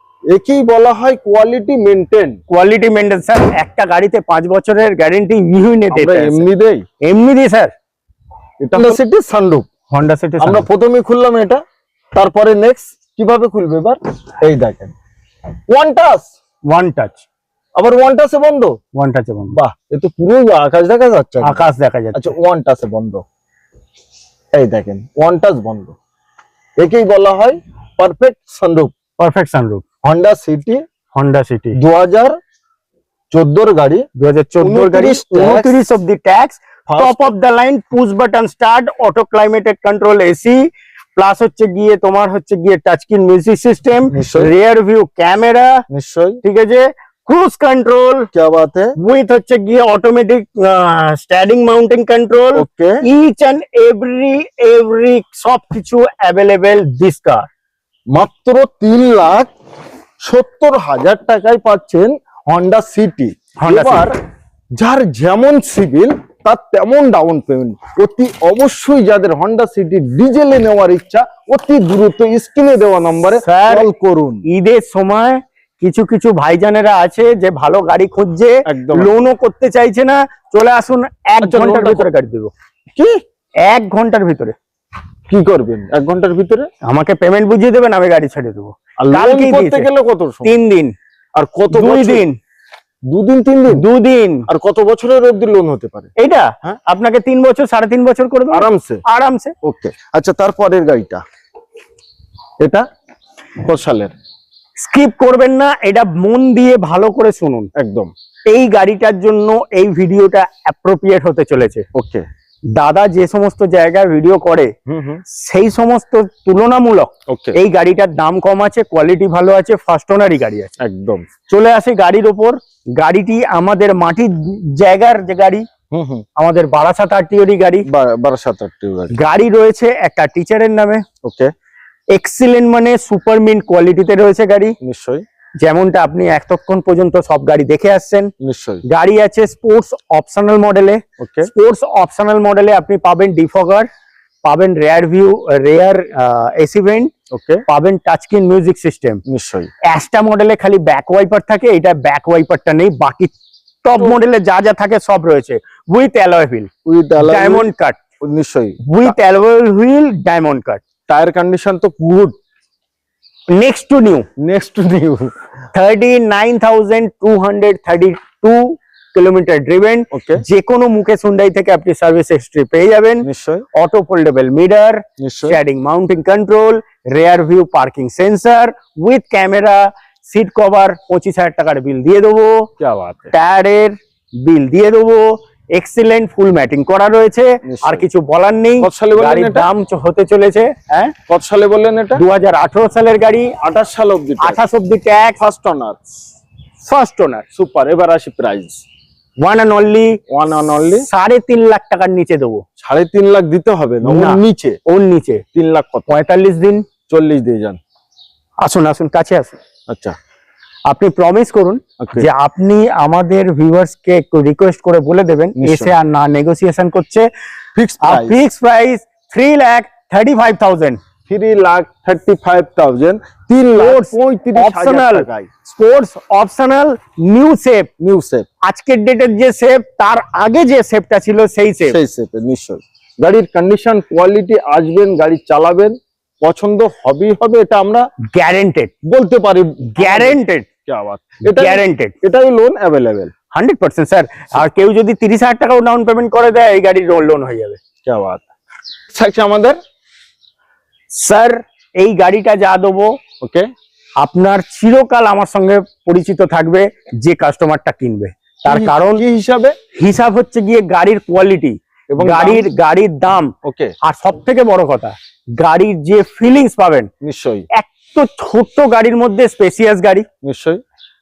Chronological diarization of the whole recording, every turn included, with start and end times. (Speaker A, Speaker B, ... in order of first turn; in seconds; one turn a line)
Speaker A: 0.3-2.4
Speaker B: 2.5-6.5
Speaker A: 5.9-6.9
Speaker B: 7.0-7.7
Speaker A: 8.6-9.7
Speaker B: 9.9-10.7
Speaker A: 10.4-11.6
Speaker A: 12.1-14.9
Speaker A: 15.7-16.4
Speaker B: 16.7-17.2
Speaker A: 17.8-18.8
Speaker B: 18.9-19.6
Speaker A: 19.5-23.2
Speaker B: 21.4-22.3
Speaker A: 24.6-26.0
Speaker A: 26.8-28.9
Speaker B: 29.2-29.8
Speaker A: 30.0-30.8
Speaker B: 31.1-31.8
Speaker A: 31.8-32.4
Speaker A: 33.3-34.1
Speaker B: 34.2-45.8
Speaker A: 34.6-35.8
Speaker A: 36.9-37.3
Speaker A: 44.1-44.5
Speaker A: 45.9-46.4
Speaker B: 46.4-48.3
Speaker A: 48.3-48.9
Speaker B: 49.0-57.5
Speaker A: 52.6-53.0
Speaker A: 58.1-59.5
Speaker A: 60.2-64.1
Speaker B: 63.6-64.1
Speaker A: 64.8-74.4
Speaker B: 73.3-73.9
Speaker B: 74.5-82.5
Speaker A: 78.7-79.2
Speaker A: 81.4-82.1
Speaker B: 83.6-84.6
Speaker A: 85.3-86.7
Speaker B: 86.8-89.9
Speaker A: 89.0-90.5
Speaker B: 90.4-90.9
Speaker A: 91.4-92.2
Speaker B: 91.7-92.4
Speaker A: 93.1-93.9
Speaker B: 93.7-94.5
Speaker A: 94.5-96.1
Speaker B: 96.2-99.5
Speaker A: 98.5-99.0
Speaker A: 99.6-101.2
Speaker A: 103.6-104.1
Speaker B: 104.8-107.7
Speaker A: 107.8-108.1
Speaker B: 108.5-111.9
Speaker A: 111.9-112.2
Speaker B: 112.8-114.7
Speaker A: 114.9-115.2
Speaker B: 115.3-120.7
Speaker A: 117.3-117.6
Speaker A: 120.8-121.3
Speaker B: 121.5-125.7
Speaker A: 125.9-126.2
Speaker B: 126.4-127.9
Speaker A: 127.9-129.2
Speaker B: 129.1-131.0
Speaker A: 131.2-131.5
Speaker B: 132.1-134.8
Speaker A: 134.8-135.2
Speaker B: 135.6-138.3
Speaker A: 138.4-138.8
Speaker B: 138.9-143.9
Speaker A: 141.2-141.5
Speaker B: 144.4-147.1
Speaker A: 147.3-147.6
Speaker B: 147.7-149.2
Speaker A: 149.3-149.7
Speaker B: 149.9-158.0
Speaker A: 156.9-157.7
Speaker A: 158.2-159.1
Speaker B: 158.8-160.8
Speaker A: 161.1-162.4
Speaker B: 163.5-164.3
Speaker A: 164.4-165.3
Speaker B: 165.7-182.7
Speaker A: 170.1-170.4
Speaker A: 173.2-173.7
Speaker A: 175.2-175.6
Speaker A: 182.8-183.3
Speaker B: 183.3-191.1
Speaker A: 187.6-188.1
Speaker A: 188.8-189.7
Speaker A: 191.3-192.2
Speaker B: 192.1-193.6
Speaker A: 193.6-194.6
Speaker B: 194.4-195.4
Speaker A: 195.4-196.1
Speaker B: 196.8-197.5
Speaker A: 197.5-198.8
Speaker B: 199.4-202.6
Speaker A: 200.3-201.1
Speaker A: 202.8-204.8
Speaker B: 204.0-205.4
Speaker A: 205.5-206.2
Speaker B: 206.1-206.9
Speaker A: 207.1-207.8
Speaker B: 208.6-209.6
Speaker A: 209.9-210.2
Speaker B: 210.9-217.3
Speaker A: 212.0-212.3
Speaker A: 215.6-215.9
Speaker A: 217.8-218.4
Speaker B: 218.0-221.0
Speaker A: 221.3-225.5
Speaker B: 223.8-227.9
Speaker A: 228.0-228.5
Speaker B: 228.6-232.0
Speaker A: 231.9-238.1
Speaker B: 238.3-238.9
Speaker A: 239.0-243.3
Speaker B: 240.0-240.7
Speaker B: 241.5-242.1
Speaker B: 243.5-247.8
Speaker A: 248.0-248.5
Speaker A: 249.1-249.8
Speaker B: 251.1-253.2
Speaker A: 253.4-253.7
Speaker B: 254.2-259.2
Speaker A: 258.6-259.8
Speaker B: 259.9-267.1
Speaker A: 262.1-262.7
Speaker A: 263.6-263.9
Speaker A: 267.2-267.7
Speaker B: 267.7-270.2
Speaker A: 270.4-270.8